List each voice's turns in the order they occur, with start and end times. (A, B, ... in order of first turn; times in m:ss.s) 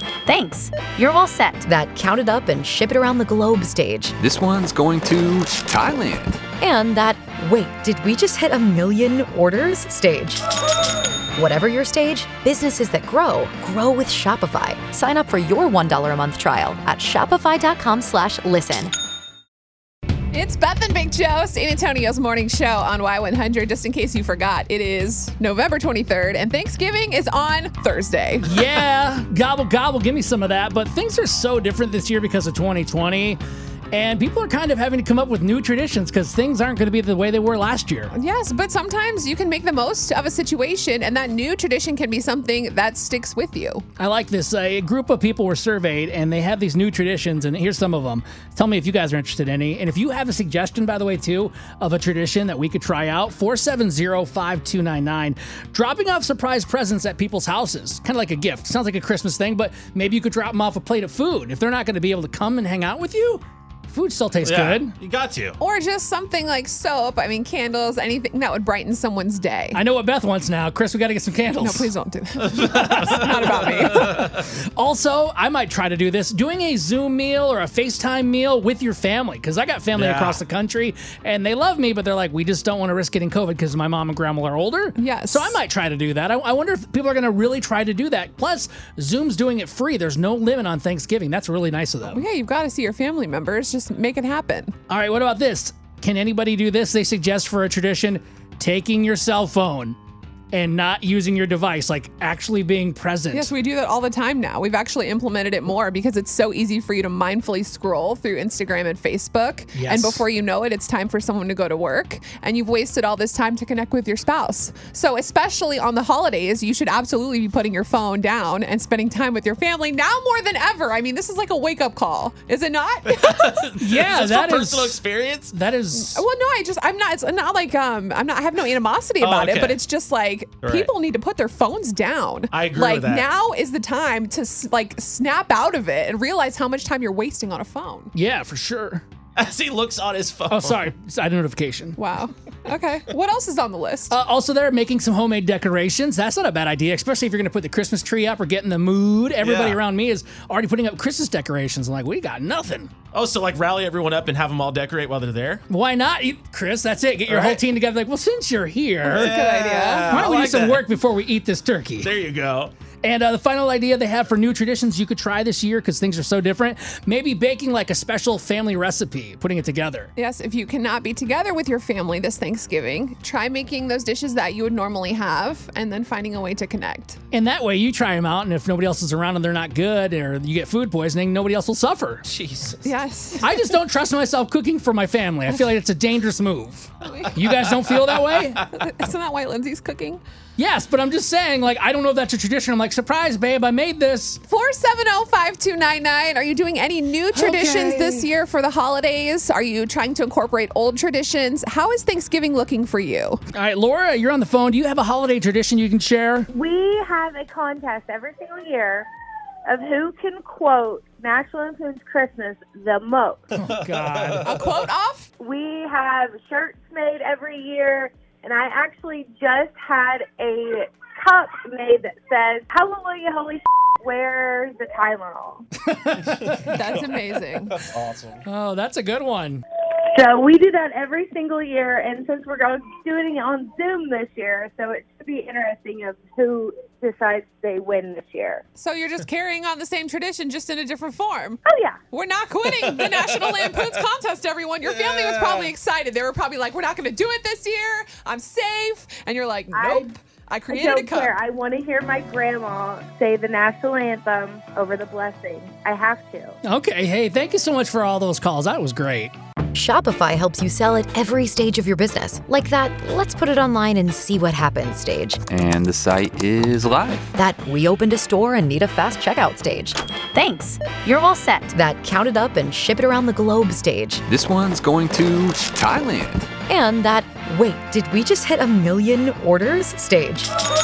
0:00.3-0:01.6 A
0:01.6-0:04.1 B
0:04.2-0:06.4 C
0:06.6-0:10.4 B
0:11.3-0:18.9 B
0:20.3-0:28.5 D
0:28.4-0:33.4 E
0:33.9-0:38.1 E
0:38.1-0:43.8 D
0:44.0-1:05.0 E
1:04.4-1:05.6 F
1:05.6-1:09.8 D
1:09.7-1:11.9 E
1:11.6-1:14.2 D
1:12.6-1:13.1 E
1:13.8-1:32.2 E
1:19.9-1:20.4 F
1:25.0-1:25.6 D
1:32.1-1:34.7 D
1:34.9-1:40.0 E
1:40.5-1:43.5 E
1:43.3-2:03.6 D
1:49.7-1:50.2 E
2:03.1-2:05.6 F
2:03.8-2:06.2 E
2:05.9-2:18.1 D
2:09.2-2:09.8 F
2:10.6-2:10.9 F
2:12.5-2:13.3 F
2:18.1-2:19.0 E
2:19.4-2:20.8 F
2:20.5-2:22.0 E
2:22.0-2:24.2 D
2:24.1-2:32.9 E
2:29.4-2:29.8 F
2:33.1-2:35.6 F
2:35.7-2:39.3 E
2:37.3-2:37.6 F
2:39.0-2:40.8 F
2:39.1-2:40.2 D
2:40.1-2:42.1 E
2:42.0-2:42.7 F
2:43.0-2:50.1 E
2:50.2-2:57.2 D
2:57.3-3:02.3 E
3:02.3-3:03.0 F
3:02.8-3:03.5 D
3:03.4-3:08.6 E
3:07.0-3:07.4 D
3:07.5-3:08.2 F
3:08.7-3:10.2 D
3:10.6-3:14.4 E
3:14.5-3:23.4 D
3:17.3-3:18.3 E
3:23.5-3:26.5 E
3:26.5-3:29.1 G
3:29.7-3:33.5 G
3:33.6-3:34.5 E
3:34.4-3:35.3 D
3:35.4-3:45.7 G
3:45.8-3:46.7 E
3:46.7-3:47.8 D
3:47.9-3:48.3 F
3:48.4-3:49.6 E
3:50.1-3:58.6 G
3:58.8-4:11.3 D
4:01.6-4:02.0 G
4:04.9-4:05.7 F
4:09.7-4:10.1 G
4:10.7-4:16.6 G
4:16.6-4:19.3 E
4:19.7-4:25.4 B
4:25.5-4:27.3 C
4:27.3-4:30.0 B
4:30.3-4:31.7 A
4:31.7-4:34.2 B
4:34.3-4:36.5 C
4:36.7-4:40.5 B